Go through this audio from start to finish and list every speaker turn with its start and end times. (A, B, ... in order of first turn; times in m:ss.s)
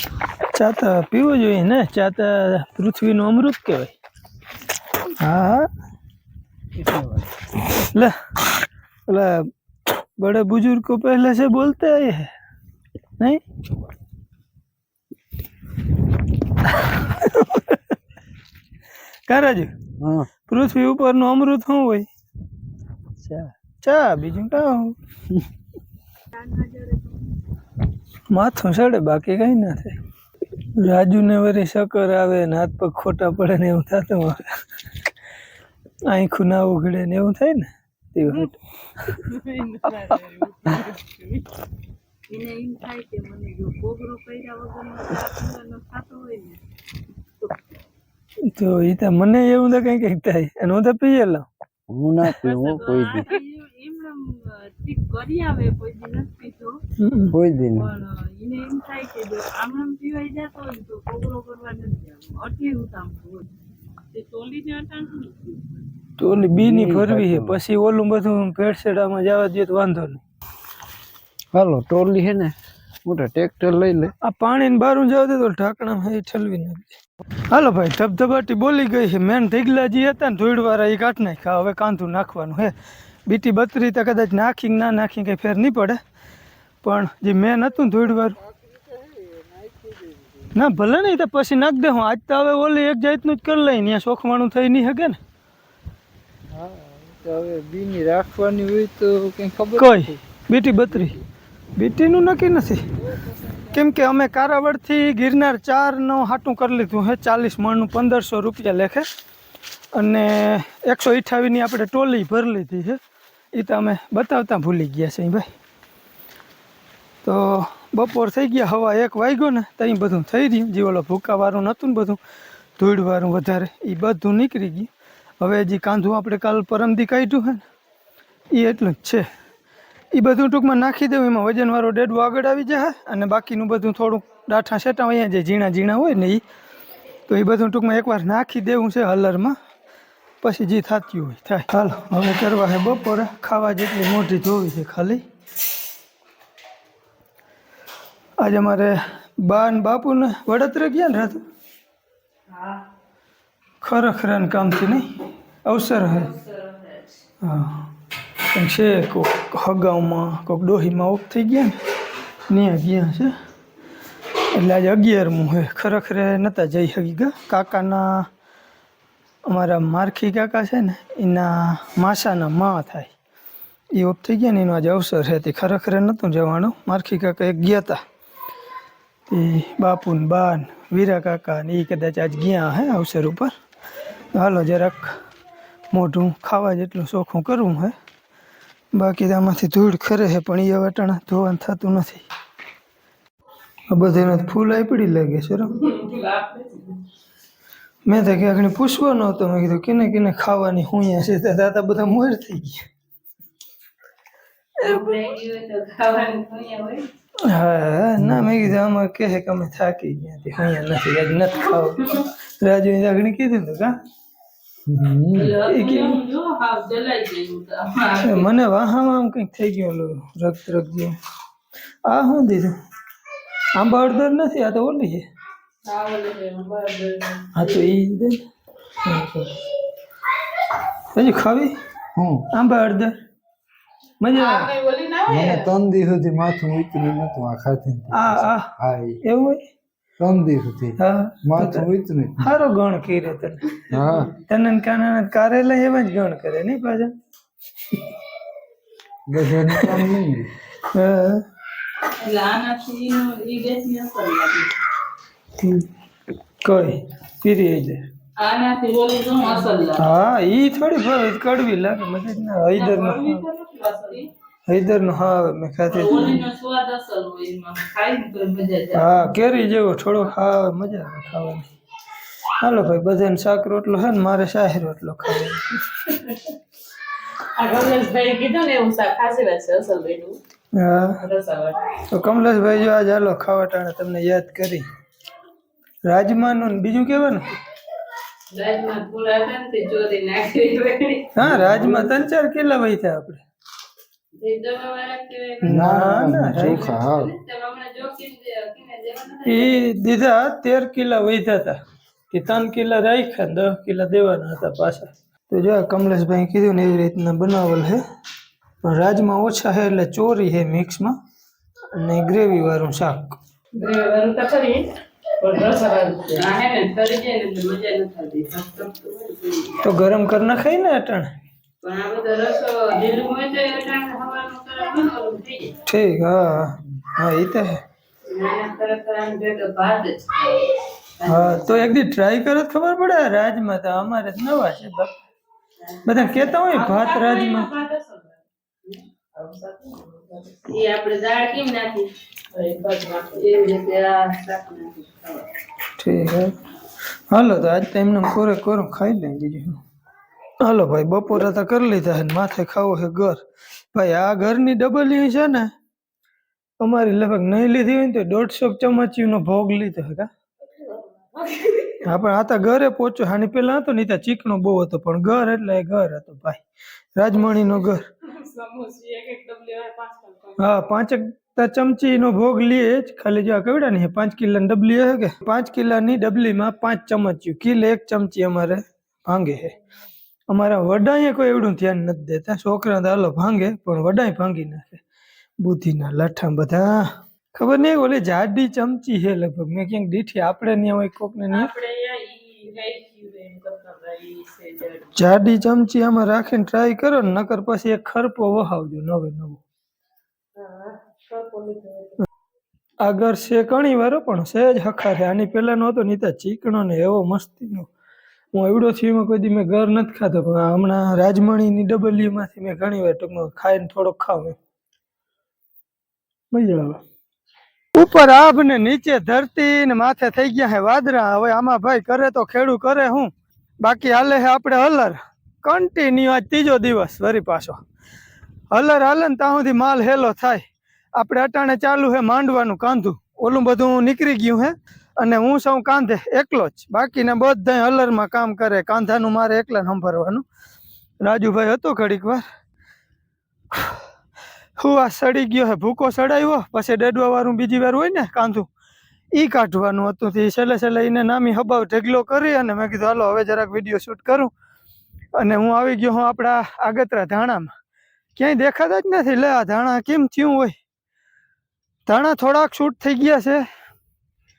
0:00.5-0:03.9 A
0:05.2-0:05.7 A
0:06.7-0:07.3 B
0:07.8-0:08.2 A
0:09.1-0:12.3 A
0:16.7-0:17.8 A
0:19.3-0:19.7 A
0:20.0-0:20.3 B
0:20.5-0:22.1 A
0:23.2-0:25.0 A
0:26.3-0:27.2 C
0:28.3-0:30.0 A
0:30.8-0:34.5 A
0:36.1-0:38.6 A
0:39.2-0:41.5 C
0:39.9-0:40.1 A
0:42.3-0:46.6 C
0:48.5-0:51.5 A
0:51.9-0:53.3 B
0:52.3-0:56.8 C
0:57.0-0:57.4 A
0:57.3-0:57.9 B
0:57.8-1:03.5 C
1:04.1-1:05.7 C
1:06.2-1:10.2 A
1:06.5-1:07.6 B
1:11.5-1:14.1 B
1:14.2-1:17.0 A
1:17.5-1:22.7 A
1:23.3-1:26.0 A
1:26.8-1:28.4 A
1:27.9-1:30.6 B
1:30.6-1:35.2 A
1:36.5-1:40.2 B
1:39.8-1:41.2 A
1:40.9-1:41.2 B
1:41.8-1:42.8 A
1:43.0-1:43.9 B
1:43.7-1:49.1 A
1:50.0-1:53.0 A
1:53.6-1:55.5 A
1:57.2-2:02.2 A
2:02.8-2:04.9 A
2:05.4-2:07.6 A
2:08.5-2:09.2 A
2:10.1-2:16.4 A
2:17.3-2:19.6 A
2:20.4-2:25.2 A
2:28.4-2:31.4 A
2:32.5-2:32.8 C
2:33.8-2:35.2 A
2:35.7-2:36.3 A
2:36.0-2:37.0 C
2:37.4-2:37.9 A
2:38.5-2:41.8 A
2:42.5-2:43.3 A
2:44.5-2:48.3 A
2:49.5-2:53.1 A
2:54.0-2:58.0 A
2:59.3-3:03.5 A
3:04.3-3:05.2 A
3:05.9-3:08.0 A
3:08.9-3:12.2 A
3:13.9-3:15.7 A
3:15.7-3:17.0 C
3:18.1-3:22.9 A
3:24.8-3:27.1 C
3:27.4-3:33.9 A
3:28.2-3:28.6 B
3:34.9-3:35.6 B
3:35.3-3:38.5 C
3:35.7-3:36.2 A
3:38.2-3:41.2 A
3:42.1-3:42.8 A
3:43.8-3:45.3 A
3:45.8-3:47.8 C
3:47.6-3:48.4 A
3:49.0-3:49.6 A
3:51.1-3:51.8 A
3:52.2-3:52.5 B
3:52.5-3:53.2 A
3:54.2-3:54.7 A
3:54.4-3:55.7 C
3:55.3-3:59.2 B
3:58.1-3:59.7 A
4:00.2-4:02.5 B
4:01.0-4:03.8 A
4:03.9-4:04.3 B
4:04.4-4:07.1 A
4:09.3-4:10.5 B
4:09.7-4:10.0 A
4:10.9-4:11.4 A
4:12.2-4:14.7 C
4:15.6-4:15.9 A
4:16.6-4:18.0 A
4:18.4-4:20.0 C
4:20.0-4:23.4 A
4:22.8-4:24.3 C
4:24.7-4:26.4 A
4:25.9-4:29.2 C
4:28.9-4:31.7 A
4:32.6-4:35.7 A
4:36.1-4:36.4 C
4:37.6-4:40.4 C
4:40.7-4:41.2 A
4:41.2-4:42.0 C
4:42.1-4:44.8 A
4:46.1-4:47.5 A
4:48.5-4:51.3 C
4:51.4-4:53.4 A
4:51.4-4:52.1 B
4:54.4-4:56.0 C
4:55.6-4:57.0 A
4:55.7-4:57.3 B
4:56.6-4:59.8 C
4:59.5-5:08.0 A
5:08.8-5:11.2 A
5:12.0-5:13.4 A
5:13.8-5:14.9 C
5:15.4-5:19.8 C
5:19.8-5:21.3 A
5:21.8-5:25.8 C
5:25.9-5:27.8 A
5:28.3-5:31.8 C
5:31.2-5:35.2 A
5:35.8-5:45.5 C
5:36.0-5:37.7 A
5:46.0-5:46.6 A
5:47.3-5:49.8 A
5:50.6-5:53.4 A
5:53.9-5:55.7 A
5:56.8-6:00.3 A
6:00.8-6:02.0 C
6:02.0-6:06.6 A
6:07.2-6:08.1 A
6:07.3-6:10.7 C
6:10.6-6:19.7 A
6:20.5-6:25.0 A
6:25.6-6:31.7 A
6:31.5-6:35.1 C
6:35.2-6:39.6 A
6:40.6-6:42.2 C
6:43.0-6:47.9 A
6:48.5-6:54.6 A
6:56.5-6:57.0 A
6:58.0-7:03.3 A
7:03.8-7:07.8 A
7:08.7-7:10.6 A
7:11.2-7:20.4 A
7:21.2-7:22.4 A
7:23.7-7:24.0 A
7:24.8-7:28.7 A
7:29.4-7:34.5 A
7:35.4-7:37.7 A
7:38.4-7:40.8 A
7:42.1-7:43.6 A